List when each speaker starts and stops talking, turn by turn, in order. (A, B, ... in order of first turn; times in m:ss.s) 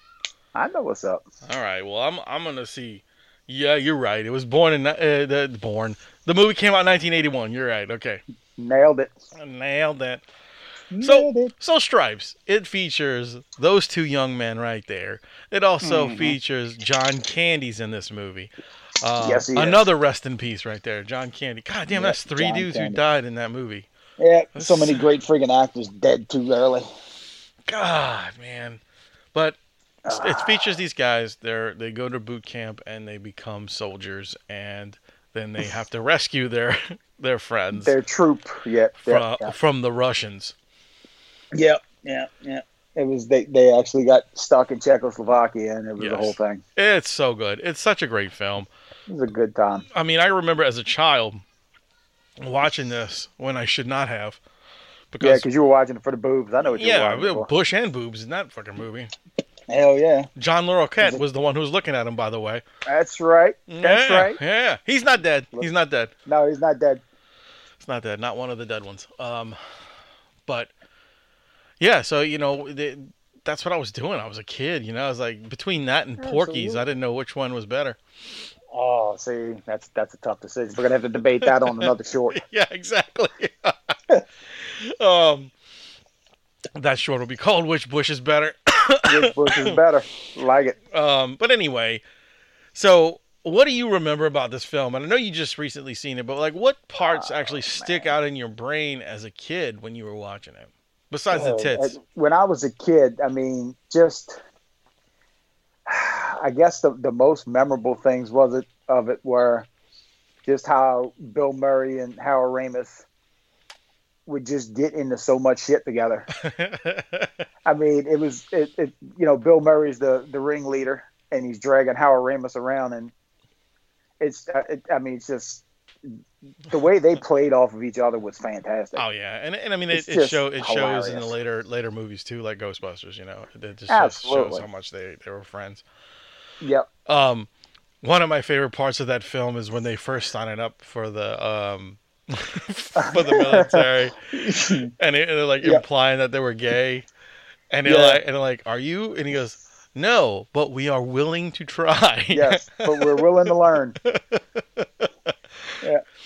0:00.5-0:01.2 A
0:01.4-0:08.2 B
0:08.6-0:09.1 A
0:09.4-0:10.2 B
0:10.9-0:11.5 A
0:11.0-0:23.9 B
0:15.8-0:16.4 A
0:19.2-0:19.8 A
0:21.9-0:23.0 A
0:24.2-0:26.9 A
0:24.6-0:25.1 B
0:27.7-0:28.8 B
0:30.0-0:30.8 A
0:30.1-0:38.0 B
0:37.7-0:39.6 A
0:39.0-0:40.6 B
0:41.6-0:46.6 A
0:46.0-0:48.7 B
0:49.1-0:49.9 A
0:49.9-0:51.4 B
0:52.4-0:54.4 B
0:55.1-0:55.5 B
0:55.2-0:57.5 A
0:56.6-0:59.1 B
0:59.7-1:00.3 A
1:00.4-1:02.6 B
1:01.0-1:01.2 A
1:02.9-1:04.4 A
1:03.7-1:06.1 B
1:06.3-1:07.0 A
1:07.8-1:09.6 B
1:10.5-1:10.7 B
1:11.8-1:18.0 B
1:16.2-1:16.9 A
1:18.7-1:22.4 A
1:21.4-1:24.0 B
1:24.6-1:25.5 B
1:26.8-1:29.8 B
1:29.1-1:30.8 A
1:30.9-1:32.0 B
1:32.8-1:42.0 B
1:37.0-1:38.2 A
1:41.3-1:44.4 A
1:45.9-1:49.7 A
1:50.4-1:53.0 A
1:54.3-1:56.3 A
1:56.4-1:57.4 B
1:57.7-2:03.1 A
2:04.2-2:05.6 A
2:06.7-2:09.0 A
2:09.0-2:15.8 B
2:09.9-2:11.3 A
2:13.9-2:14.7 A
2:16.6-2:16.9 A
2:17.1-2:17.5 B
2:18.0-2:24.2 B
2:23.0-2:24.9 A
2:25.0-2:27.1 B
2:27.7-2:35.8 B
2:27.8-2:28.2 A
2:32.3-2:34.0 A